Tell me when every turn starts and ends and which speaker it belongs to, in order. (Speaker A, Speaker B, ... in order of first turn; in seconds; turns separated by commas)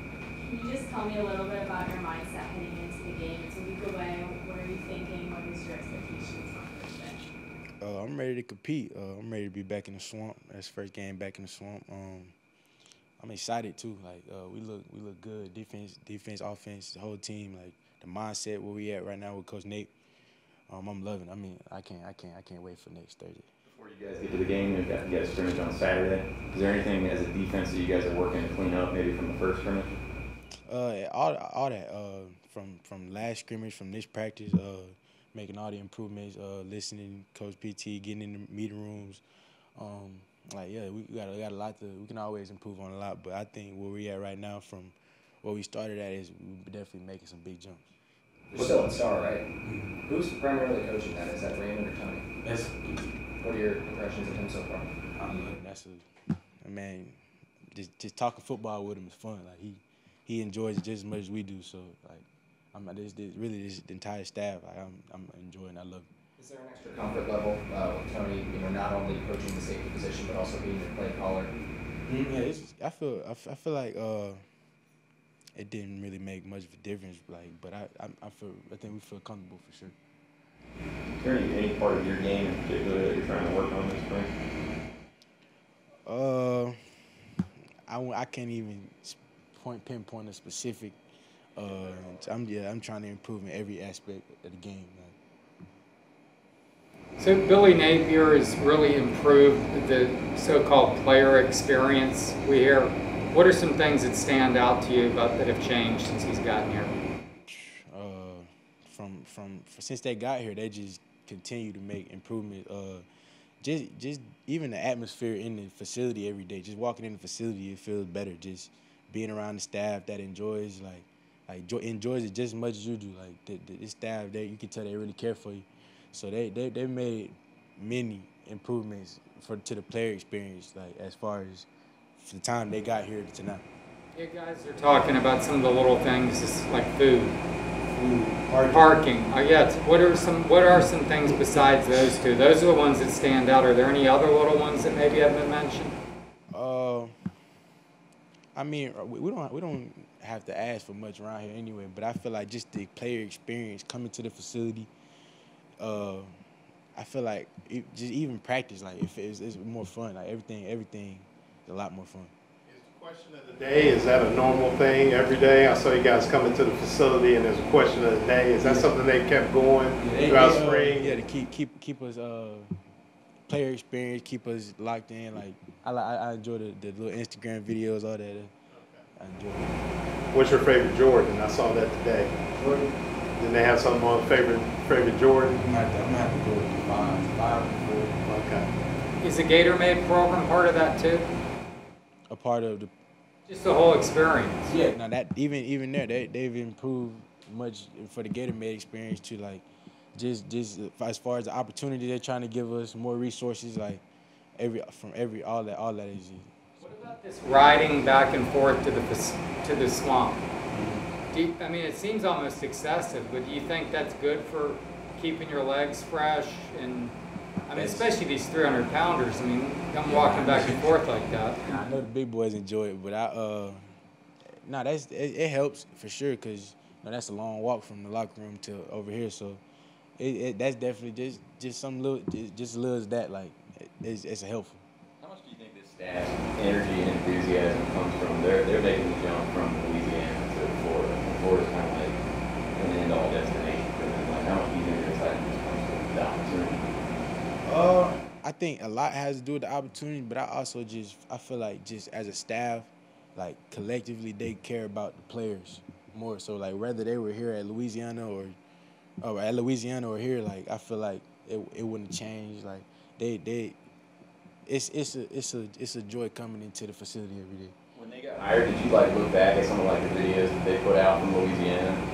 Speaker A: 0.4-7.2, Speaker B: 7.8-12.3, Speaker B: 13.2-19.9, Speaker B: 20.7-23.5, Speaker C: 23.6-29.9, Speaker B: 30.7-39.2, Speaker B: 39.8-47.9, Speaker D: 48.5-49.4, Speaker B: 49.6-49.9, Speaker D: 50.0-52.3, Speaker B: 52.4-53.0, Speaker D: 53.4-54.9, Speaker B: 55.2-56.1, Speaker B: 56.6-57.2, Speaker B: 57.7-66.1, Speaker D: 66.4-71.5, Speaker B: 72.1-74.4, Speaker B: 75.6-80.0, Speaker C: 81.2-84.3, Speaker B: 86.1-87.0, Speaker B: 87.9-91.0, Speaker B: 91.6-95.2, Speaker E: 97.2-106.9, Speaker B: 107.5-113.1, Speaker B: 113.6-131.7, Speaker B: 132.2-133.7, Speaker E: 134.2-137.4, Speaker B: 137.9-139.0, Speaker E: 138.7-145.9, Speaker B: 146.5-147.1, Speaker B: 148.6-154.9, Speaker B: 155.8-156.3, Speaker B: 157.0-162.3, Speaker F: 162.7-171.1, Speaker B: 168.6-168.9, Speaker B: 170.0-172.7, Speaker B: 173.5-178.5, Speaker F: 178.7-179.0, Speaker B: 179.2-179.7, Speaker F: 180.3-182.4, Speaker B: 182.6-182.9, Speaker F: 183.4-185.6, Speaker B: 185.6-188.2, Speaker F: 188.3-188.7, Speaker E: 189.2-191.3, Speaker B: 192.3-192.9, Speaker E: 193.5-194.6, Speaker B: 194.7-199.7, Speaker B: 200.2-204.0, Speaker B: 204.6-206.5, Speaker E: 206.8-210.4, Speaker B: 210.7-211.1, Speaker E: 211.3-217.1, Speaker E: 217.7-221.6, Speaker B: 217.7-218.1, Speaker B: 220.1-220.8, Speaker B: 221.7-223.9, Speaker B: 224.7-229.6, Speaker B: 230.2-234.8, Speaker C: 235.2-242.2, Speaker C: 242.8-246.9, Speaker B: 247.6-258.6, Speaker B: 259.2-263.8, Speaker B: 264.7-267.8, Speaker C: 267.9-272.0